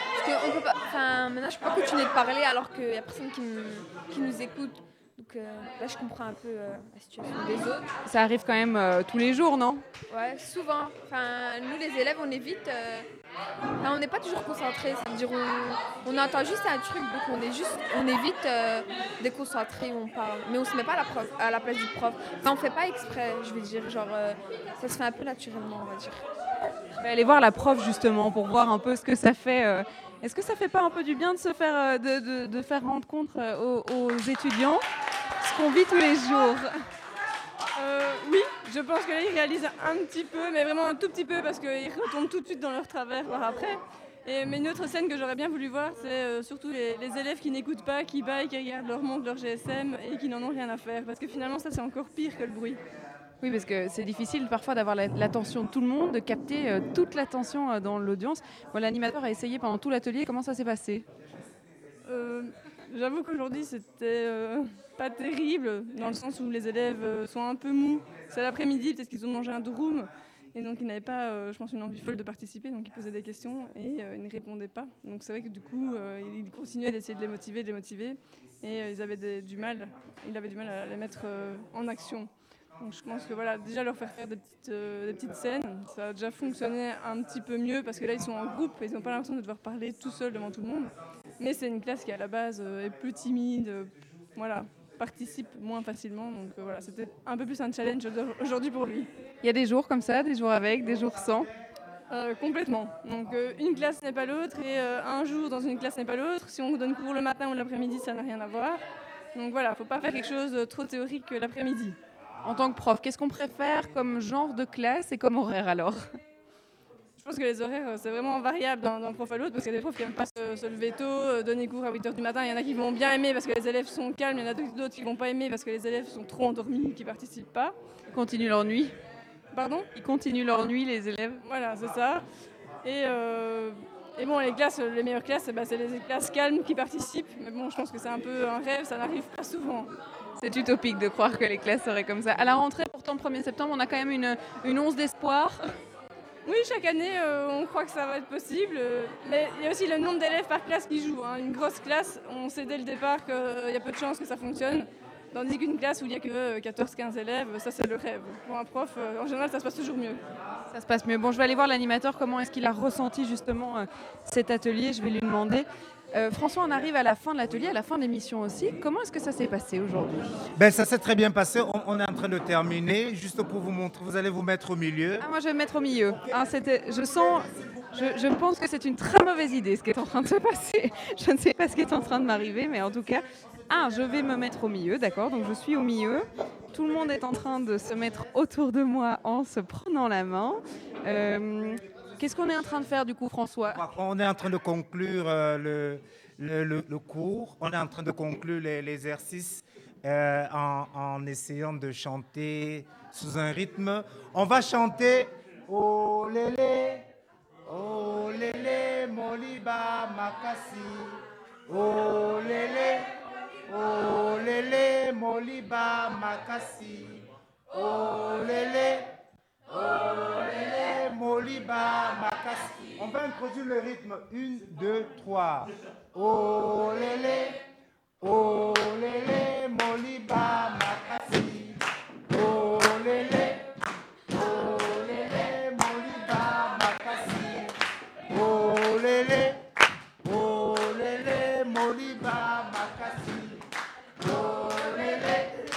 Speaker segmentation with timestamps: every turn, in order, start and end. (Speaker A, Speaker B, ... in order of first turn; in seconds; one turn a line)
Speaker A: 0.1-7.9
Speaker B: 8.0-9.8
Speaker A: 10.1-13.1
Speaker A: 13.8-26.2
Speaker B: 27.0-34.8
Speaker B: 35.4-36.6
Speaker C: 37.8-52.8
Speaker B: 53.4-61.0
Speaker C: 62.0-99.1
Speaker B: 99.4-101.5
Speaker C: 102.1-108.8
Speaker C: 109.3-112.0
Speaker B: 112.4-116.0
Speaker C: 117.2-127.7
Speaker B: 128.1-128.9
Speaker C: 129.5-129.9
Speaker B: 129.9-131.4
Speaker C: 131.4-132.2
Speaker C: 132.8-139.9
Speaker B: 140.4-145.7
Speaker C: 146.4-160.2
Speaker B: 160.7-170.3
Speaker D: 170.6-175.2
Speaker B: 175.2-193.8
Speaker D: 193.7-207.0
Speaker D: 207.7-213.1
Speaker D: 213.7-219.1
Speaker D: 219.7-227.6
Speaker D: 228.2-231.8
Speaker D: 232.3-233.6
Speaker D: 234.3-237.8
Speaker D: 238.3-239.6
Speaker D: 240.2-243.6
Speaker D: 244.2-245.5